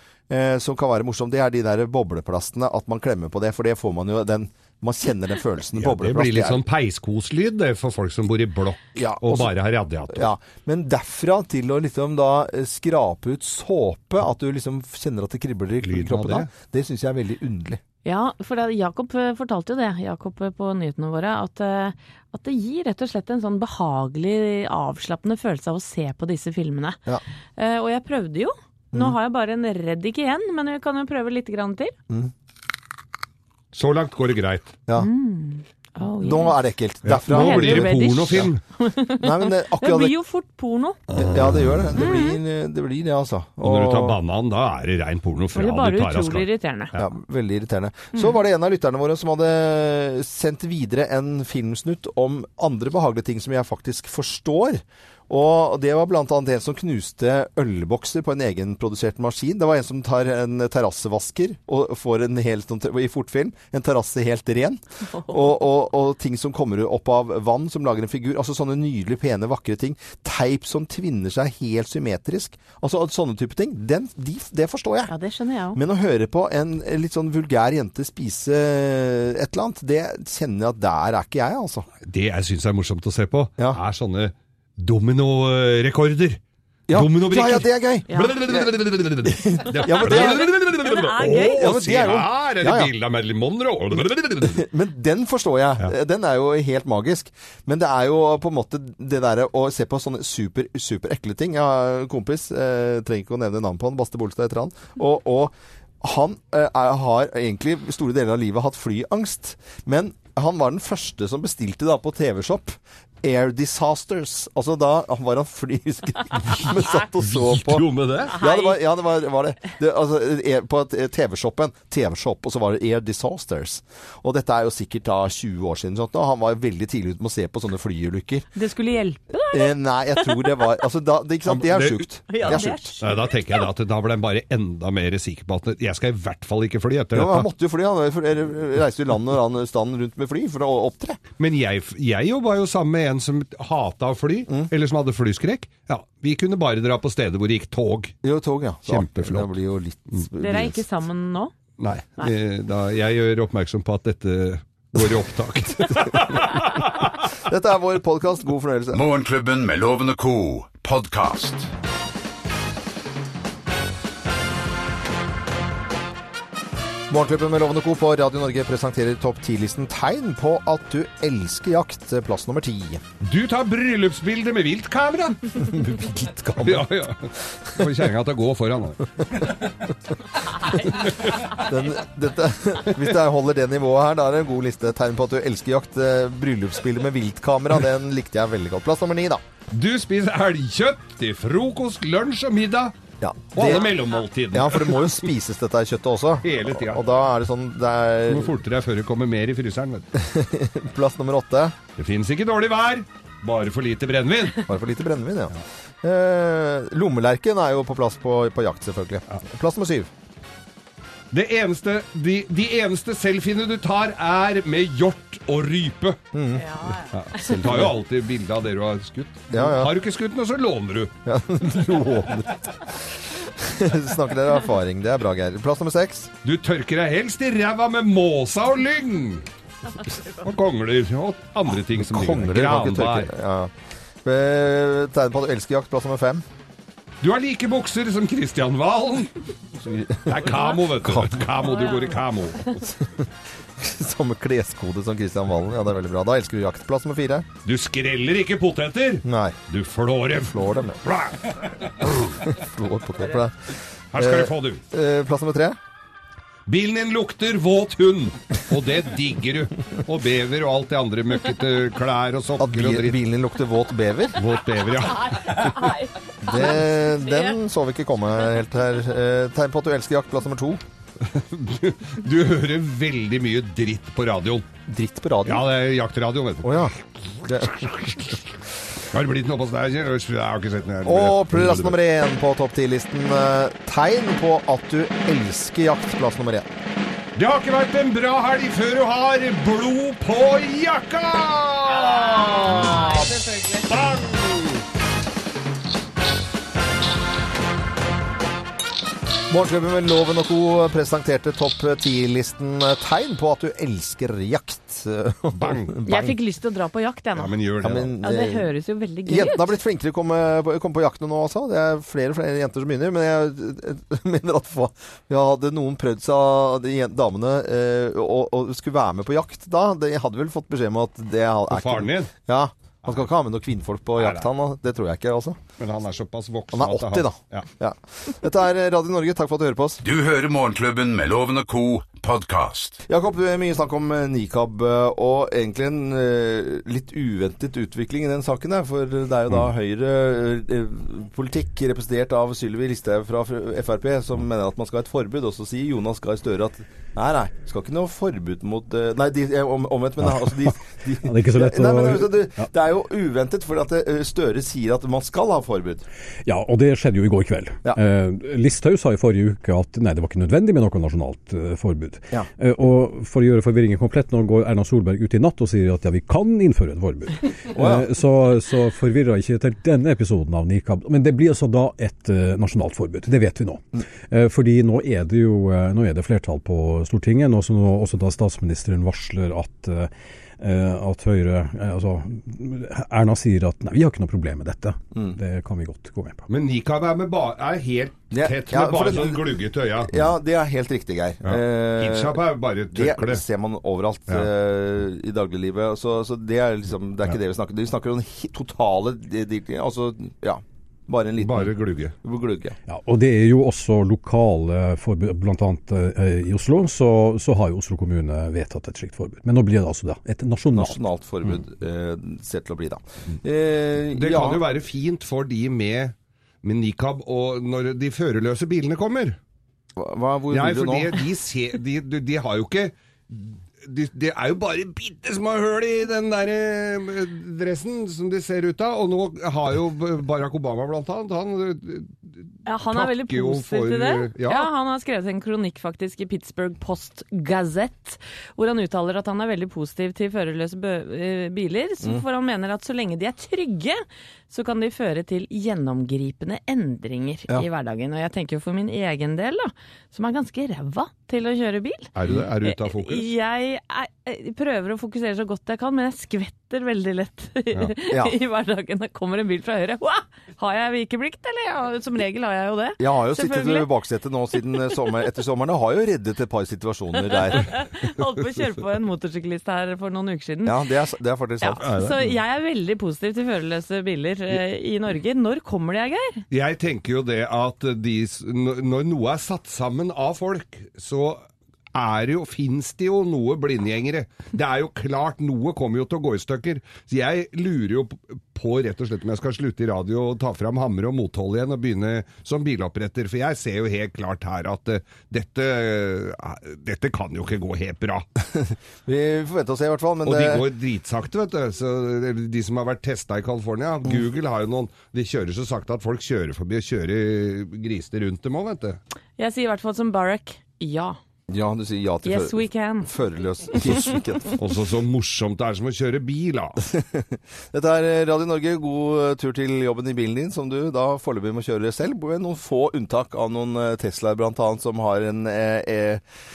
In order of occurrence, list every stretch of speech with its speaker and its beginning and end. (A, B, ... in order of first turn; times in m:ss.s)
0:00.3-0:06.6 A
0:05.8-0:10.3 B
0:08.9-0:09.5 A
0:10.1-0:17.8 A
0:15.8-0:16.5 B
0:18.0-0:27.0 C
0:27.6-0:32.0 C
0:33.7-0:34.8 B
0:35.0-0:36.5 C
0:36.2-0:37.9 A
0:37.0-0:38.6 B
0:37.3-0:41.0 C
0:39.2-0:40.1 A
0:41.1-0:41.9 B
0:41.1-0:44.2 A
0:41.9-0:42.4 C
0:43.6-0:47.1 B
0:45.5-0:46.9 C
0:46.9-1:15.1 A
1:05.2-1:05.4 C
1:15.1-1:15.8 C
1:15.7-1:21.9 A
1:22.0-1:34.6 B
1:26.9-1:30.5 A
1:28.1-1:28.4 C
1:29.8-1:31.7 C
1:31.6-1:32.9 A
1:34.4-2:08.5 A
1:57.2-1:58.3 B
1:58.3-1:58.8 C
2:08.5-2:10.8 C
2:09.5-2:12.9 A
2:11.4-2:17.5 B
2:12.3-2:13.6 C
2:17.1-2:21.2 A
2:21.4-2:28.2 B
2:28.2-2:30.8 A
2:28.9-2:29.5 B
2:30.4-2:31.5 C
2:31.8-2:37.2 B
2:35.9-2:36.4 A
2:37.4-2:39.0 A
2:38.9-2:41.7 D
2:47.1-2:53.0 A
2:53.2-2:55.6 B
2:55.6-2:56.9 A
2:56.6-2:59.5 B
3:00.9-3:01.4 B
3:01.5-3:09.4 A
3:09.7-3:12.9 B
3:13.2-3:14.0 A
3:13.5-3:15.3 B
3:14.5-3:18.6 A
3:16.4-3:17.0 B
3:18.3-3:20.1 B
3:20.1-3:21.8 A
3:22.0-3:24.6 B
3:24.6-3:30.1 A
3:31.3-3:36.2 B
3:36.3-3:36.6 A
3:36.6-3:37.5 C
3:37.1-3:42.3 B
3:37.6-3:37.9 A
3:39.5-3:39.9 A
3:41.2-3:42.7 A
3:43.4-3:46.3 A
3:46.4-3:49.4 B
3:50.4-3:53.3 B
3:51.9-3:53.7 A
3:54.2-3:56.4 A
3:57.2-3:59.3 B
3:59.8-4:02.9 B
3:59.9-4:00.5 A
4:01.0-4:01.5 A
4:01.6-4:02.2 C
4:03.8-4:07.5 A
4:07.6-4:12.4 B
4:09.2-4:09.6 A
4:10.5-4:11.0 A
4:12.4-4:15.8 A
4:14.1-4:14.8 B
4:16.7-4:23.2 B
4:22.6-4:24.4 A
4:24.4-4:26.0 B
4:25.2-4:26.7 C
4:26.4-4:30.8 A
4:27.2-4:27.5 C
4:31.2-4:34.7 B
4:34.9-4:35.6 A
4:35.4-4:36.9 B
4:36.6-4:38.4 A
4:37.5-4:38.2 B
4:39.1-4:42.0 B
4:41.0-4:46.7 A
4:47.4-4:54.8 B
4:59.5-5:06.4 A
5:05.5-5:05.9 B
5:06.0-5:07.5 C
5:07.4-5:08.1 B
5:07.8-5:08.7 A
5:08.2-5:09.8 C
5:09.2-5:25.6 A
5:21.7-5:22.3 B
5:24.2-5:24.5 B
5:25.8-5:27.7 B
5:26.7-5:30.0 A
5:30.0-5:33.0 D
5:33.1-5:56.0 A
5:50.3-5:50.5 E
5:51.2-5:52.7 E
5:56.4-6:26.4 E
6:07.7-6:08.1 A
6:26.5-6:30.2 B
6:28.3-6:41.7 A
6:31.4-6:33.4 B
6:41.4-6:42.1 B
6:42.2-6:42.8 A
6:42.9-6:51.0 E
6:50.7-6:54.6 A
6:54.1-6:59.4 B
7:00.0-7:01.2 A
7:00.5-7:12.3 B
7:12.6-7:43.9 C
7:12.9-7:14.7 B
7:32.1-7:33.3 B
7:38.1-7:38.4 A
7:43.0-7:47.7 A
7:47.2-7:50.8 C
7:50.6-7:51.9 A
7:51.6-7:56.4 C
7:51.8-7:52.3 B
7:56.5-8:18.2 B
8:18.5-8:20.7 A
8:20.2-8:29.0 B
8:29.4-8:31.2 C
8:31.5-8:34.6 A
8:32.2-8:33.1 C
8:34.6-8:36.8 B
8:36.9-8:46.2 A